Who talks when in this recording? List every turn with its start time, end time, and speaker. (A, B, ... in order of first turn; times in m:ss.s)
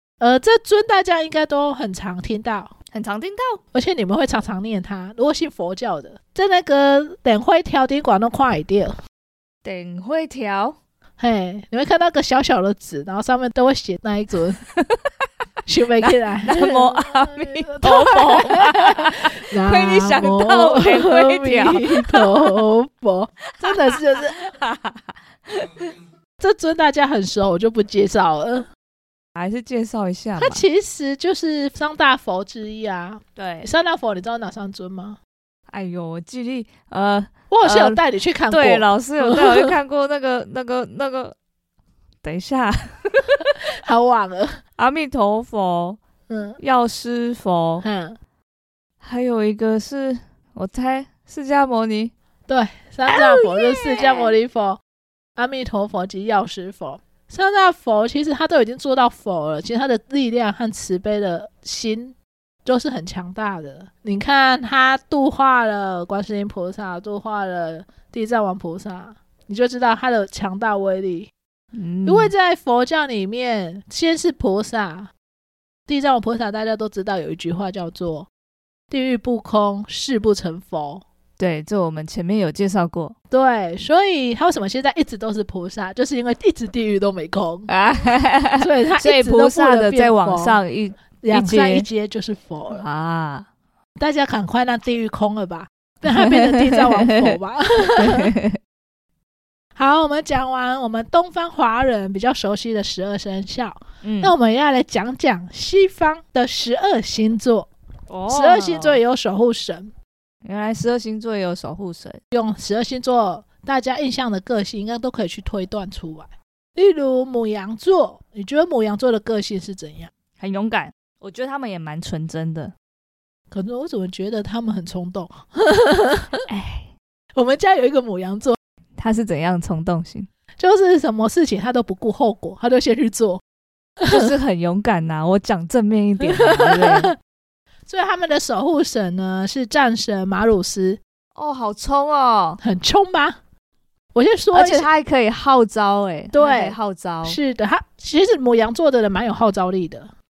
0:00.2-0:02.7 A
0:02.9-0:03.6 B
0:03.7-0:08.9 A
0:09.6-0:10.8 B
0:11.2-0:14.6 A
0:14.7-0:15.1 B
0:15.6-0:24.4 A
0:16.0-0:22.3 B
0:23.6-0:25.9 B
0:26.4-0:28.7 A
0:29.3-0:30.6 B
0:30.4-0:35.2 A
0:33.4-0:33.7 B
0:35.7-0:41.4 B
0:37.5-0:39.7 A
0:42.2-0:43.4 B
0:43.8-0:44.6 A
0:44.8-0:46.0 B
0:46.3-0:46.6 A
0:46.6-0:47.8 B
0:47.8-0:48.2 A
0:49.0-0:52.1 B
0:52.5-0:54.8 A
0:53.1-0:54.3 B
0:55.4-1:11.3 A
1:11.7-1:12.3 B
1:12.0-1:15.1 A
1:15.9-1:18.3 A
1:18.9-1:21.0 A
1:21.4-1:23.1 B
1:23.3-1:27.7 A
1:27.7-1:31.8 B
1:28.6-1:30.6 A
1:31.2-1:32.8 A
1:32.7-1:33.5 B
1:34.0-1:38.3 A
1:36.2-1:37.4 B
1:38.0-1:38.6 B
1:39.8-1:47.7 A
1:44.0-1:44.3 B
1:48.1-1:49.0 B
1:48.3-1:49.9 A
1:50.4-1:52.2 B
1:52.3-2:00.1 A
2:00.4-2:02.7 B
2:03.5-2:06.4 A
2:06.5-2:06.9 B
2:07.4-2:08.6 A
2:09.0-2:10.3 B
2:10.6-2:13.4 A
2:14.0-2:14.3 A
2:14.1-2:17.1 B
2:16.2-2:17.1 A
2:17.9-2:21.0 A
2:21.3-2:22.6 B
2:22.6-2:23.4 A
2:24.1-2:24.9 A
2:24.5-2:27.4 B
2:26.3-2:30.1 A